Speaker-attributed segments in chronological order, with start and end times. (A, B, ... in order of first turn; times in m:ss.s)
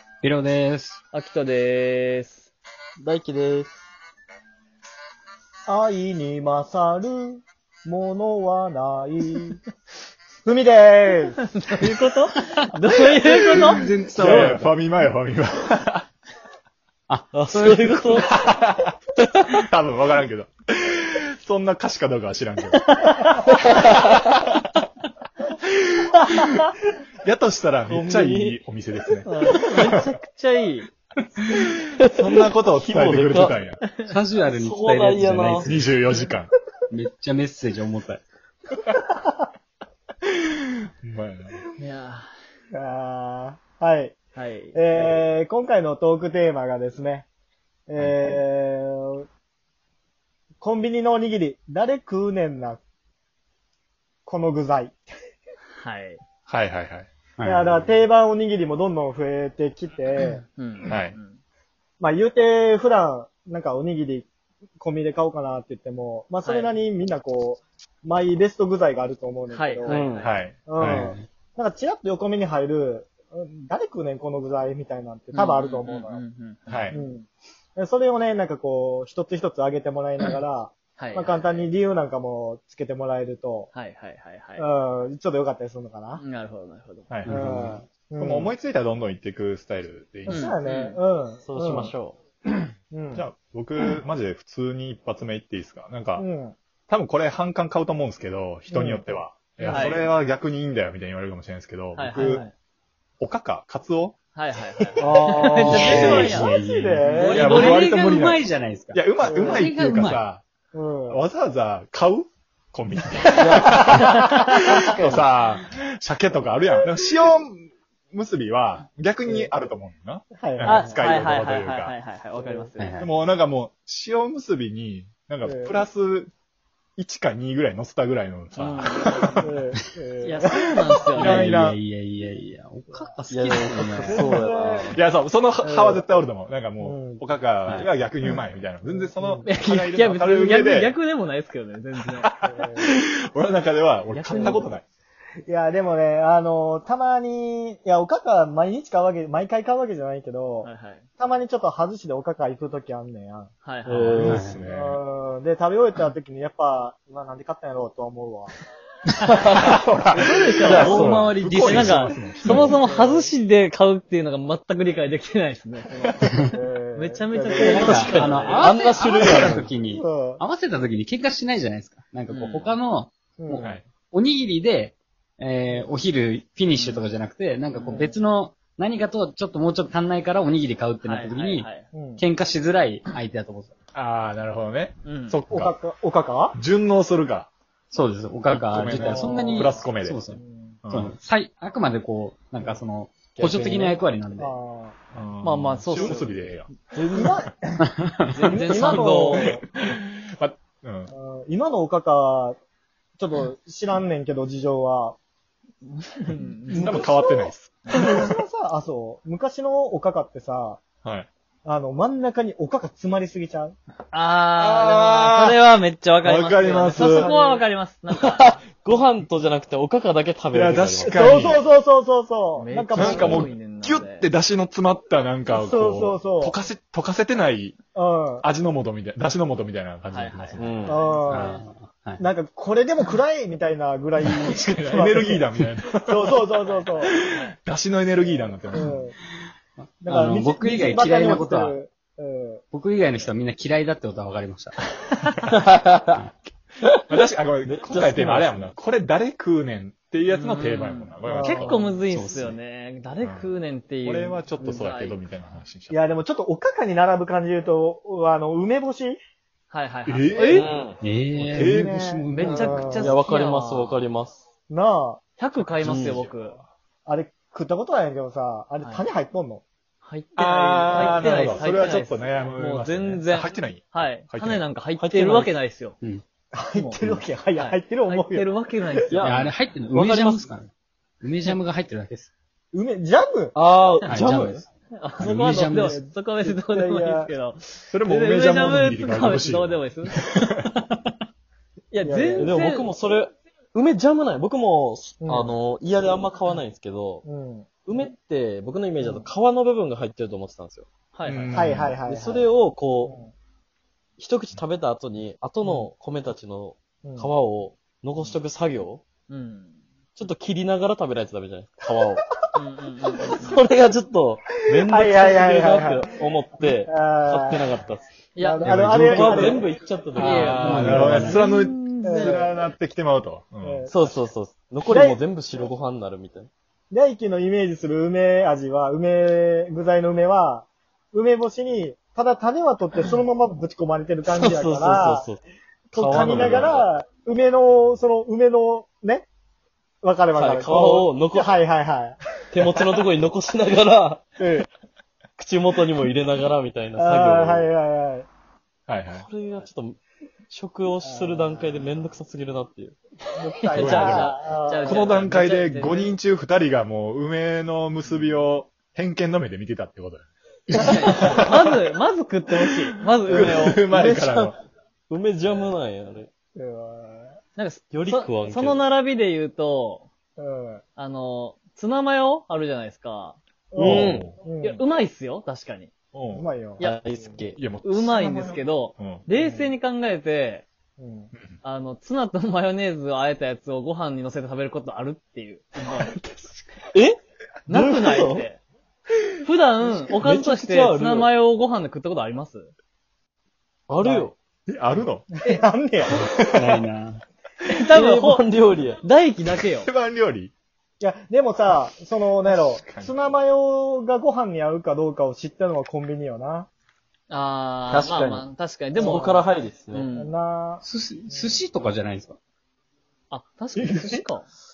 0:00.2-0:01.0 A
0:01.1-0:02.5 B
0:03.0-0:03.7 C
0:05.6-0:09.6 D
0:10.4-0:11.4 D
0:11.5-0:14.2 B
0:13.3-0:16.1 E
0:13.7-0:14.7 A
0:17.1-0:18.1 A
0:17.3-0:18.4 C
0:18.2-0:18.9 E
0:19.2-0:19.6 C
0:19.5-0:22.9 E
0:23.4-0:24.2 C
0:23.8-0:24.6 E
0:25.6-0:29.3 E
0:27.9-0:28.6 C
0:29.2-0:30.9 B
0:29.8-0:30.1 E
0:31.8-0:33.8 E
0:32.0-0:33.6 C
0:33.8-0:34.1 B
0:34.1-0:35.9 A
0:34.4-0:35.7 C
0:35.6-0:36.5 E
0:36.9-0:38.2 A
0:38.9-0:39.4 D
0:40.2-0:41.6 E
0:41.8-0:42.3 B
0:42.7-0:44.2 D
0:44.3-0:44.8 B
0:44.7-0:47.2 D
0:47.9-0:49.2 D
0:48.0-0:48.3 A
0:50.6-0:52.8 D
0:54.2-0:55.0 D
0:55.8-0:56.2 B
0:56.5-0:57.1 E
0:57.4-0:58.0 A
0:57.4-1:00.4 D
1:00.6-1:01.4 B
1:00.8-1:01.2 E
1:02.0-1:04.3 D
1:04.8-1:16.2 D
1:06.4-1:06.7 B
1:09.5-1:10.3 B
1:09.8-1:10.3 C
1:10.1-1:11.1 E
1:10.8-1:11.2 A
1:15.3-1:17.0 B
1:16.7-1:17.0 E
1:16.9-1:23.7 D
1:21.0-1:21.7 B
1:23.7-1:24.6 B
1:24.6-1:26.2 D
1:26.2-1:27.1 B
1:27.1-1:30.5 E
1:27.2-1:27.8 A
1:27.2-1:28.5 D
1:30.3-1:31.0 B
1:30.3-1:31.9 D
1:31.4-1:32.2 C
1:32.5-1:36.3 E
1:32.9-1:33.2 D
1:36.2-1:36.6 D
1:36.9-1:42.4 E
1:38.7-1:39.0 D
1:39.6-1:40.0 D
1:39.6-1:40.0 B
1:42.0-1:42.5 B
1:42.1-1:42.5 D
1:43.2-1:44.2 E
1:44.3-1:47.4 B
1:45.0-1:47.6 D
1:45.6-1:50.2 A
1:45.7-1:46.2 E
1:47.1-1:47.7 C
1:47.3-1:50.4 E
1:49.2-1:49.7 D
1:50.7-1:51.2 D
1:51.1-2:01.9 E
1:53.4-1:54.1 C
1:59.2-1:59.5 D
2:00.3-2:01.0 D
2:00.6-2:02.9 B
2:02.4-2:02.7 D
2:02.8-2:03.1 A
2:03.0-2:06.3 E
2:05.4-2:05.8 D
2:07.0-2:09.4 E
2:08.6-2:09.4 B
2:09.4-2:10.6 D
2:10.2-2:11.5 B
2:11.1-2:14.3 A
2:11.2-2:11.8 E
2:13.3-2:15.0 C
2:14.0-2:15.0 D
2:14.8-2:20.9 E
2:15.6-2:16.1 D
2:16.8-2:17.3 D
2:18.8-2:19.5 D
2:19.4-2:22.4 B
2:22.1-2:24.8 E
2:22.5-2:22.9 D
2:24.1-2:24.7 B
2:24.3-2:24.7 D
2:25.4-2:33.5 D
2:30.6-2:31.0 B
2:33.6-2:34.3 B
2:33.8-2:34.4 C
2:34.1-2:35.0 E
2:34.2-2:34.6 A
2:34.6-2:38.5 D
2:39.6-2:42.8 E
2:40.1-2:46.3 B
2:40.6-2:41.2 C
2:40.7-2:42.7 A
2:42.5-2:43.3 D
2:46.5-2:48.3 D
2:46.9-2:48.6 B
2:47.6-3:03.7 A
2:47.7-2:49.7 C
2:49.2-2:49.6 E
2:49.9-2:50.4 D
2:52.3-2:52.8 B
2:53.4-2:53.7 D
2:53.6-2:53.9 E
2:56.7-2:57.0 B
2:57.7-2:58.2 B
2:57.9-2:58.1 D
3:01.0-3:01.8 B
3:01.9-3:02.2 D
3:03.9-3:05.7 E
3:05.0-3:05.4 B
3:05.5-3:06.6 D
3:06.6-3:07.5 E
3:07.9-3:10.4 A
3:08.5-3:10.2 E
3:09.0-3:10.8 D
3:10.8-3:11.1 E
3:10.9-3:14.6 A
3:13.3-3:13.6 E
3:13.6-3:13.9 C
3:13.6-3:15.0 D
3:15.1-3:16.7 E
3:15.4-3:16.4 B
3:16.9-3:17.4 C
3:17.1-3:17.9 D
3:17.9-3:19.0 A
3:18.3-3:19.5 B
3:18.4-3:19.6 D
3:19.3-3:21.1 E
3:21.1-3:22.6 D
3:23.2-3:25.2 D
3:25.8-3:27.0 B
3:26.7-3:30.8 D
3:26.7-3:28.3 E
3:31.0-3:31.3 E
3:31.6-3:33.8 D
3:34.1-3:38.6 B
3:34.6-3:35.6 E
3:36.2-3:37.3 E
3:36.9-3:37.6 D
3:38.1-3:41.2 C
3:40.5-3:41.6 E
3:41.1-3:43.5 D
3:42.6-3:44.3 B
3:42.9-3:47.8 E
3:45.5-3:46.6 D
3:47.9-3:48.5 D
3:48.4-3:51.0 E
3:50.1-3:51.6 B
3:50.6-3:51.0 C
3:50.9-3:51.6 D
3:51.3-3:52.2 A
3:52.2-3:55.5 D
3:54.3-3:56.5 E
3:56.0-3:57.1 D
3:56.6-3:57.6 B
3:57.0-3:59.0 E
3:58.1-3:59.2 D
4:00.0-4:01.8 A
4:00.0-4:02.6 D
4:02.7-4:04.8 A
4:05.6-4:06.2 C
4:07.0-4:12.0 E
4:07.6-4:08.7 C
4:10.3-4:15.2 B
4:11.2-4:12.0 D
4:12.0-4:12.6 A
4:13.2-4:13.5 E
4:14.0-4:16.0 E
4:15.9-4:19.2 D
4:19.7-4:20.6 B
4:20.1-4:20.7 E
4:20.5-4:21.0 C
4:21.0-4:23.0 A
4:21.4-4:21.9 E
4:21.5-4:23.2 D
4:22.3-4:24.0 B
4:23.0-4:24.4 C
4:24.7-4:25.2 D
4:25.4-4:26.6 B
4:25.6-4:26.3 E
4:25.8-4:26.2 C
4:27.0-4:29.6 D
4:30.0-4:36.0 B
4:30.4-4:34.7 E
4:31.1-4:31.7 C
4:35.0-4:35.6 C
4:36.5-4:38.5 D
4:36.7-4:37.0 B
4:37.6-4:39.5 B
4:39.1-4:40.5 C
4:39.2-4:40.7 A
4:41.2-4:42.3 A
4:42.7-4:43.6 D
4:43.5-4:44.6 C
4:44.0-4:44.6 A
4:44.9-4:50.2 B
4:45.2-4:46.0 A
4:45.7-4:47.3 D
4:47.9-4:50.4 E
4:51.9-4:52.9 B
4:52.0-4:52.6 D
4:52.4-4:57.2 C
4:55.2-4:55.5 D
4:57.2-4:57.7 D
4:57.8-5:00.9 C
4:59.0-4:59.3 D
5:01.1-5:01.6 B
5:01.3-5:02.0 E
5:01.5-5:02.5 D
5:02.0-5:03.2 C
5:03.0-5:03.3 D
5:04.2-5:09.0 C
5:07.0-5:07.3 D
5:09.3-5:09.8 B
5:10.2-5:12.2 C
5:12.5-5:13.6 B
5:13.3-5:18.1 C
5:14.8-5:17.7 D
5:18.3-5:18.8 B
5:18.4-5:19.7 D
5:18.6-5:19.6 E
5:18.6-5:21.2 C
5:20.1-5:23.9 E
5:20.1-5:22.3 B
5:20.5-5:21.4 A
5:22.0-5:22.6 D
5:23.6-5:24.2 D
5:23.8-5:26.5 C
5:24.8-5:25.2 D
5:26.9-5:35.3 D
5:34.2-5:35.4 C
5:35.9-5:39.2 D
5:35.9-5:36.8 C
5:36.4-5:36.8 E
5:40.0-5:42.2 D
5:40.3-5:41.6 C
5:42.5-5:44.3 C
5:44.4-5:44.7 D
5:45.4-5:47.7 C
5:47.0-5:48.3 D
5:48.9-5:49.3 E
5:49.1-5:50.0 C
5:50.5-5:52.9 C
5:51.0-5:51.6 D
5:53.3-5:55.1 D
5:53.5-5:56.1 B
5:53.7-6:01.8 E
6:00.7-6:03.8 B
6:02.9-6:04.6 E
6:03.7-6:04.5 C
6:05.1-6:06.3 C
6:06.6-6:07.4 D
6:07.6-6:10.1 B
6:07.9-6:08.8 C
6:10.4-6:10.8 D
6:11.0-6:13.4 B
6:13.7-6:14.8 D
6:13.8-6:14.3 C
6:13.8-6:14.4 E
6:14.6-6:15.9 B
6:16.1-6:16.5 E
6:16.3-6:16.9 D
6:16.8-6:17.6 C
6:17.6-6:19.3 E
6:17.8-6:20.6 B
6:19.4-6:19.7 D
6:21.0-6:21.3 D
6:21.6-6:26.1 B
6:26.9-6:28.4 C
6:27.7-6:28.6 B
6:29.4-6:32.7 B
6:29.8-6:31.3 C
6:33.9-6:34.4 C
6:34.0-6:34.3 D
6:34.7-6:35.3 E
6:35.4-6:36.4 D
6:36.5-6:37.2 A
6:37.6-6:38.5 B
6:37.8-6:39.0 C
6:39.0-6:39.9 B
6:39.6-6:40.5 E
6:41.0-6:46.7 D
6:42.4-6:43.2 E
6:47.3-6:50.3 B
6:47.9-6:50.1 C
6:48.9-6:49.5 D
6:50.1-6:51.5 D
6:50.8-6:52.4 A
6:53.3-6:54.5 B
6:53.8-6:54.2 D